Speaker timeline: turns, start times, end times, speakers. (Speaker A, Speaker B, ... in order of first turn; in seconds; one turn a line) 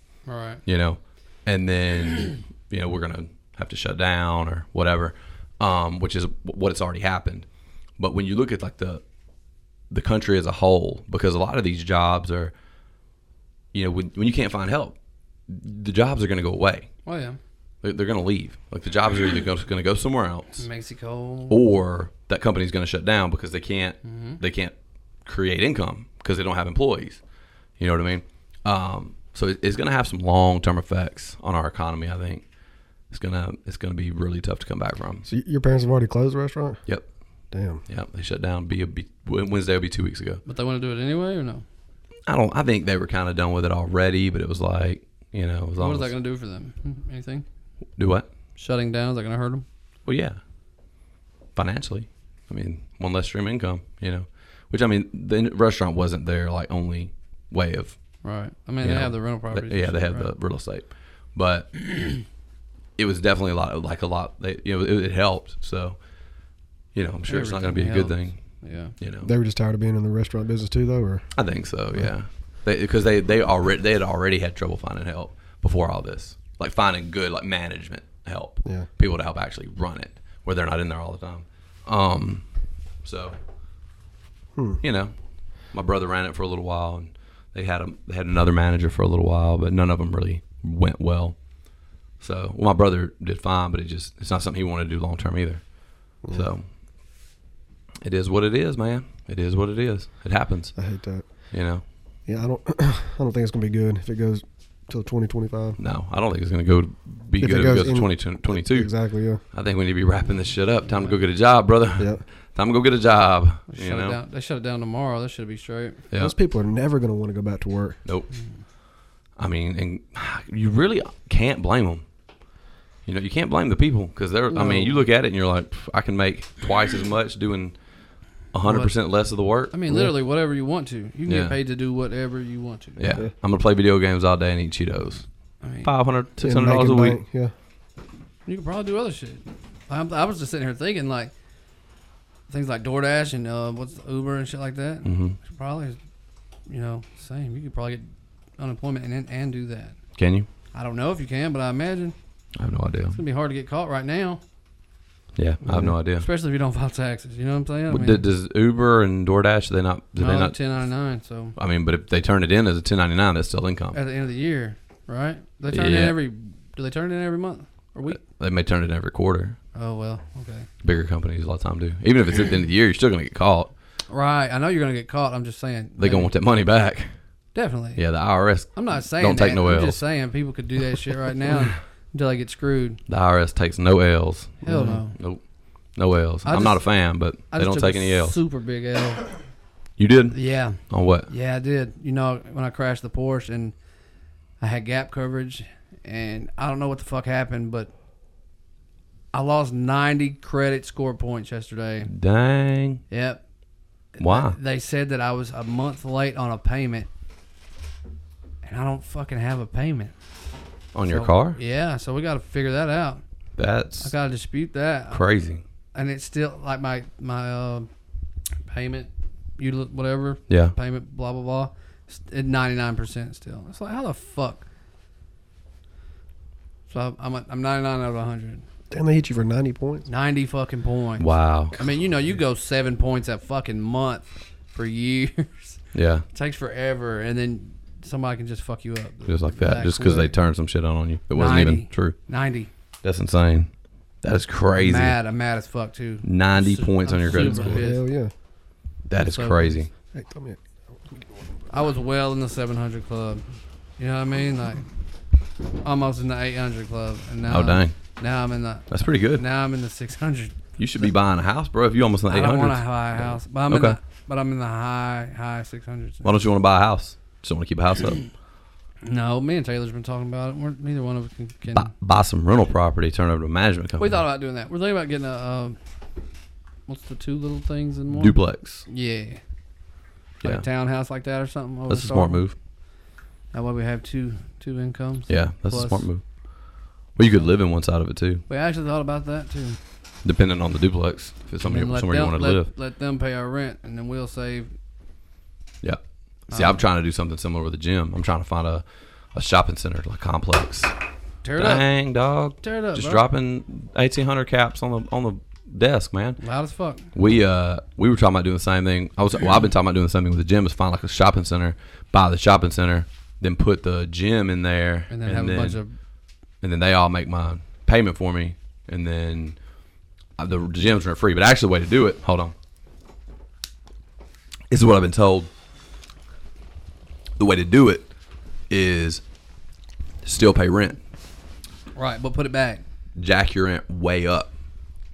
Speaker A: 0.2-0.6
Speaker B: 0.7-7.5
Speaker B: 8.0-9.0
Speaker B: 9.9-12.5
Speaker B: 13.7-14.9
Speaker B: 15.5-16.9
Speaker A: 17.0-17.4
Speaker B: 17.8-20.6
Speaker A: 20.6-21.6
Speaker B: 21.5-24.7
Speaker A: 24.0-24.4
Speaker B: 25.2-27.2
Speaker B: 27.8-32.4
Speaker B: 33.1-35.3
Speaker C: 35.2-36.8
Speaker C: 37.5-37.8
Speaker B: 37.9-40.4
Speaker A: 40.5-41.6
Speaker B: 42.3-46.1
Speaker A: 45.8-47.5
Speaker B: 48.0-48.3
Speaker A: 48.5-49.6
Speaker B: 50.0-50.4
Speaker B: 51.5-58.0
Speaker A: 58.2-60.3
Speaker B: 58.8-62.1
Speaker B: 63.0-66.0
Speaker B: 66.9-68.3
Speaker A: 67.3-68.9
Speaker B: 69.0-69.3
Speaker C: 69.2-71.2
Speaker B: 71.3-82.4
Speaker B: 83.0-83.3
Speaker B: 84.8-85.1
Speaker B: 85.7-91.4
Speaker B: 92.2-95.6
Speaker C: 96.2-96.5
Speaker B: 96.3-96.6
Speaker B: 98.0-100.7
Speaker C: 100.8-101.2
Speaker B: 101.5-101.8
Speaker C: 102.3-105.8
Speaker B: 105.8-108.9
Speaker C: 107.4-109.4
Speaker B: 109.5-114.2
Speaker A: 110.9-111.2
Speaker C: 112.0-112.2
Speaker A: 113.7-116.0
Speaker C: 116.2-118.0
Speaker B: 119.4-122.0
Speaker B: 123.0-127.8
Speaker A: 124.5-125.0
Speaker B: 128.5-129.7
Speaker A: 128.6-128.9
Speaker A: 129.7-133.0
Speaker B: 131.2-131.6
Speaker B: 133.0-135.2
Speaker A: 135.6-135.9
Speaker B: 135.8-137.2
Speaker C: 136.4-137.5
Speaker A: 138.4-141.3
Speaker A: 142.5-146.0
Speaker B: 145.0-145.4
Speaker A: 146.7-148.0
Speaker A: 148.6-150.0
Speaker B: 150.2-150.5
Speaker A: 150.7-152.2
Speaker B: 152.6-153.2
Speaker A: 153.1-154.4
Speaker B: 155.3-156.2
Speaker C: 155.7-155.9
Speaker A: 156.1-158.2
Speaker B: 157.9-160.6
Speaker A: 160.2-161.6
Speaker B: 161.6-164.0
Speaker A: 163.9-168.2
Speaker B: 165.7-166.2
Speaker B: 168.2-169.6
Speaker A: 169.7-170.7
Speaker B: 170.8-173.7
Speaker A: 174.1-176.3
Speaker B: 176.0-177.1
Speaker A: 177.5-178.0
Speaker B: 177.9-180.0
Speaker A: 178.7-183.0
Speaker B: 183.1-185.4
Speaker A: 184.6-185.1
Speaker C: 184.7-185.0
Speaker B: 185.9-188.3
Speaker A: 186.4-186.8
Speaker A: 187.5-189.3
Speaker B: 190.0-191.3
Speaker A: 190.3-193.7
Speaker A: 194.6-197.9
Speaker A: 199.3-202.1
Speaker B: 202.1-203.0
Speaker A: 203.1-203.4
Speaker A: 204.2-207.1
Speaker B: 204.2-204.6
Speaker A: 208.6-210.1
Speaker B: 210.9-211.6
Speaker A: 211.1-213.2
Speaker B: 213.6-214.1
Speaker A: 214.0-215.2
Speaker B: 215.1-215.6
Speaker A: 215.9-217.9
Speaker A: 218.7-224.7
Speaker B: 220.5-220.7
Speaker A: 226.9-228.6
Speaker C: 228.9-230.1
Speaker A: 230.1-235.8
Speaker B: 231.2-231.8
Speaker B: 235.9-236.2
Speaker A: 236.3-240.3
Speaker B: 239.3-242.2
Speaker A: 241.3-242.7
Speaker B: 243.0-243.7
Speaker B: 244.2-245.1
Speaker A: 244.8-248.0
Speaker B: 246.2-247.8
Speaker C: 247.3-248.3
Speaker B: 249.1-249.9
Speaker A: 249.2-249.8
Speaker C: 250.1-250.6
Speaker A: 251.7-253.4
Speaker A: 254.0-254.9
Speaker A: 255.8-260.6
Speaker B: 257.5-257.9
Speaker B: 258.9-259.4
Speaker B: 260.8-264.0
Speaker A: 262.3-266.4
Speaker B: 266.2-268.2
Speaker A: 269.0-271.9
Speaker B: 271.7-274.2
Speaker A: 274.0-275.8
Speaker A: 276.9-279.4
Speaker B: 278.1-278.9
Speaker A: 280.4-282.4
Speaker B: 281.9-282.6
Speaker A: 283.5-286.1
Speaker B: 285.3-286.2
Speaker B: 287.1-288.4
Speaker A: 288.5-289.8
Speaker B: 290.2-292.7
Speaker A: 291.6-294.7
Speaker B: 295.8-298.8
Speaker A: 296.5-296.8
Speaker B: 299.3-300.9
Speaker A: 301.4-301.8
Speaker B: 301.6-306.4
Speaker A: 302.6-303.2
Speaker A: 306.4-307.1
Speaker B: 307.1-315.8
Speaker A: 315.1-315.9
Speaker B: 316.6-319.6
Speaker B: 320.4-322.5
Speaker B: 324.7-325.5
Speaker B: 327.4-328.1
Speaker B: 328.7-329.2
Speaker B: 330.2-331.0
Speaker A: 331.9-332.8
Speaker B: 333.2-334.5